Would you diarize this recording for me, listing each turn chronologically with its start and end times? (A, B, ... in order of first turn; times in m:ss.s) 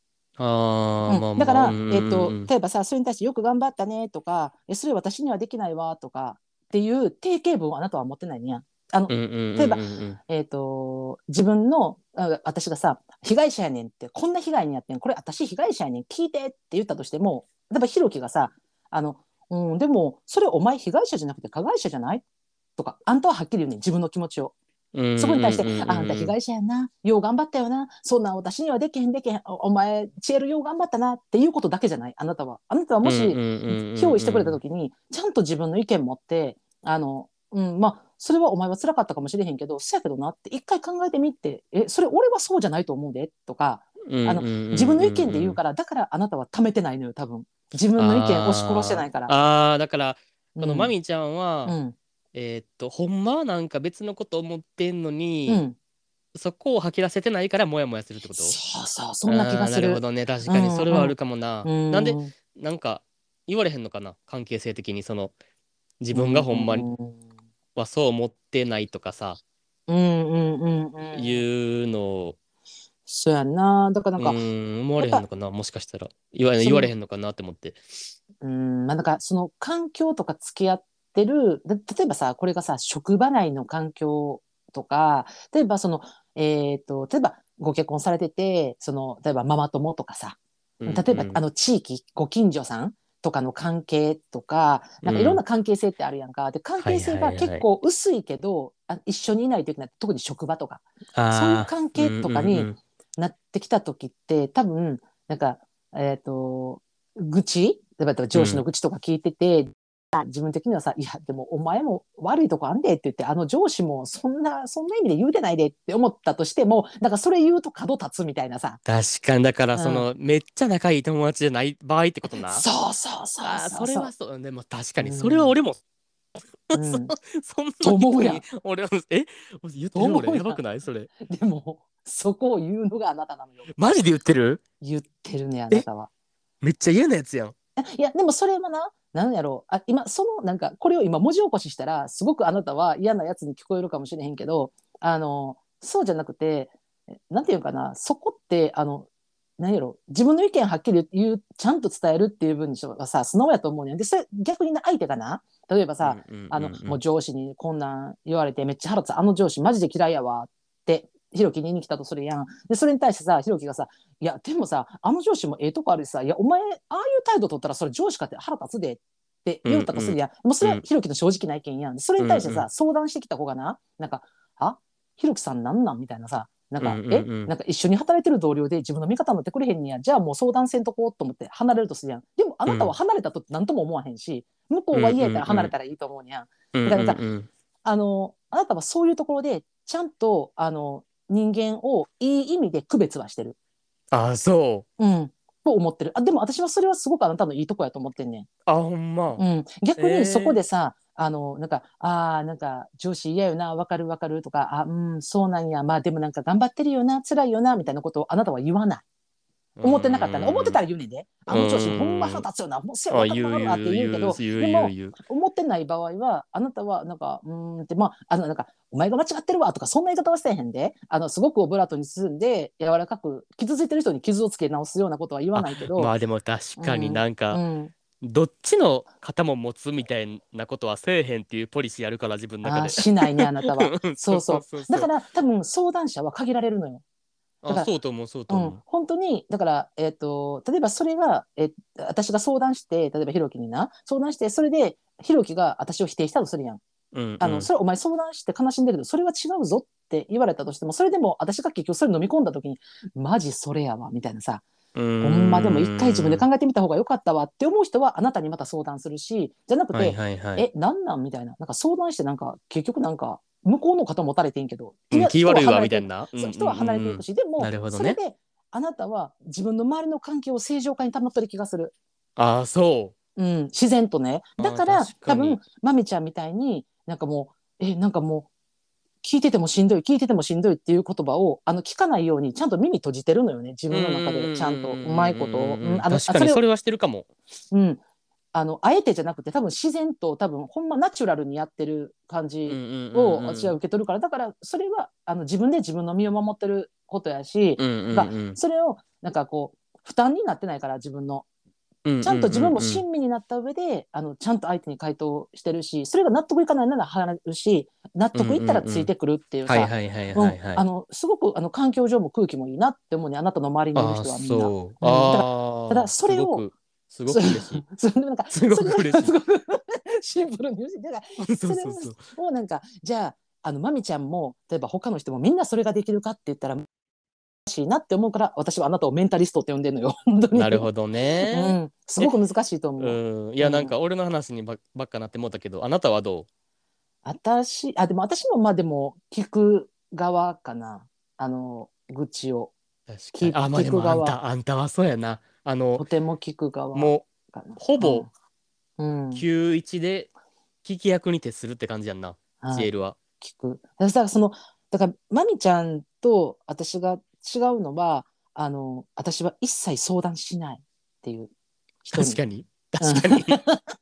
0:00.4-0:02.5 A
0:01.0-0:22.2 B
0:09.1-0:10.2 A
0:22.8-0:24.5 B
0:24.9-0:26.3 A
0:25.2-0:49.3 B
0:33.0-0:34.6 A
0:44.1-0:45.6 A
0:48.0-0:51.8 A
0:50.6-0:50.9 B
0:51.6-0:52.0 B
0:52.3-0:55.6 A
0:55.5-0:55.7 B
0:56.3-0:58.6 A
0:58.3-1:02.3 B
0:59.3-1:05.3 A
1:06.0-1:06.8 A
1:06.1-1:07.2 B
1:07.8-1:09.4 A
1:09.9-1:11.4 B
1:11.1-1:12.4 A
1:13.1-1:14.4 B
1:14.2-1:17.8 A
1:15.0-1:15.2 B
1:16.6-1:16.9 B
1:18.4-1:58.8 B
1:30.8-1:31.4 A
1:35.0-1:35.4 A
1:36.8-1:37.6 A
1:41.1-1:42.8 A
1:48.3-1:48.6 A
1:58.8-2:02.6 A
1:59.7-2:00.1 B
2:02.4-2:04.1 B
2:03.4-2:05.8 A
2:05.0-2:05.5 B
2:06.7-2:11.1 A
2:06.7-2:07.1 B
2:07.8-2:08.4 B
2:09.9-2:10.6 B
2:11.2-2:13.7 B
2:13.7-2:14.6 A
2:14.8-2:16.1 B
2:16.6-2:17.5 A
2:17.8-2:26.7 B
2:27.3-2:29.1 B
2:29.6-3:07.2 B
2:36.0-2:37.0 A
2:49.6-2:50.8 A
2:52.2-2:52.6 A
2:56.8-2:57.5 A
3:02.6-3:02.9 A
3:04.9-3:05.7 A
3:06.7-3:07.5 A
3:07.8-3:13.6 B
3:14.1-3:14.8 A
3:15.0-3:18.5 B
3:18.7-3:19.4 A
3:19.4-3:29.0 B
3:20.0-3:20.6 A
3:29.8-3:30.8 A
3:29.8-3:46.1 B
3:31.5-3:32.4 A
3:33.1-3:35.2 A
3:45.5-3:47.6 A
3:46.8-3:47.9 B
3:48.2-3:55.1 A
3:52.6-3:57.0 B
3:57.6-3:58.8 A
3:58.5-4:06.8 B
4:07.1-4:07.7 A
4:07.4-4:14.6 B
4:14.9-4:16.4 A
4:15.2-4:31.9 B
4:19.9-4:20.6 A
4:25.1-4:28.2 A
4:32.4-4:33.2 A
4:33.4-4:38.5 B
4:34.6-4:35.6 A
4:39.2-4:46.6 B
4:43.9-4:47.3 A
4:47.7-4:48.0 B
4:48.5-5:01.4 B
4:52.7-4:53.8 A
4:57.8-4:58.6 A
5:02.0-5:03.0 A
5:02.2-5:16.6 B
5:08.3-5:09.1 A
5:09.6-5:10.8 A
5:13.9-5:17.8 A
5:17.3-5:26.8 B
5:18.5-5:19.3 A
5:21.4-5:22.2 A
5:27.6-5:30.9 B
5:30.5-5:32.4 A
5:31.5-5:33.9 B
5:33.0-5:36.5 A
5:37.2-5:42.7 B
5:43.1-5:46.0 A
5:43.3-5:44.4 B
5:46.0-5:48.3 B
5:46.9-5:48.3 A
5:49.0-5:49.4 B
5:49.3-5:50.3 A
5:50.8-5:53.2 A
5:52.6-5:52.9 B
5:53.4-6:01.5 B
6:02.0-6:02.4 B
6:02.1-6:03.6 A
6:03.0-6:03.8 B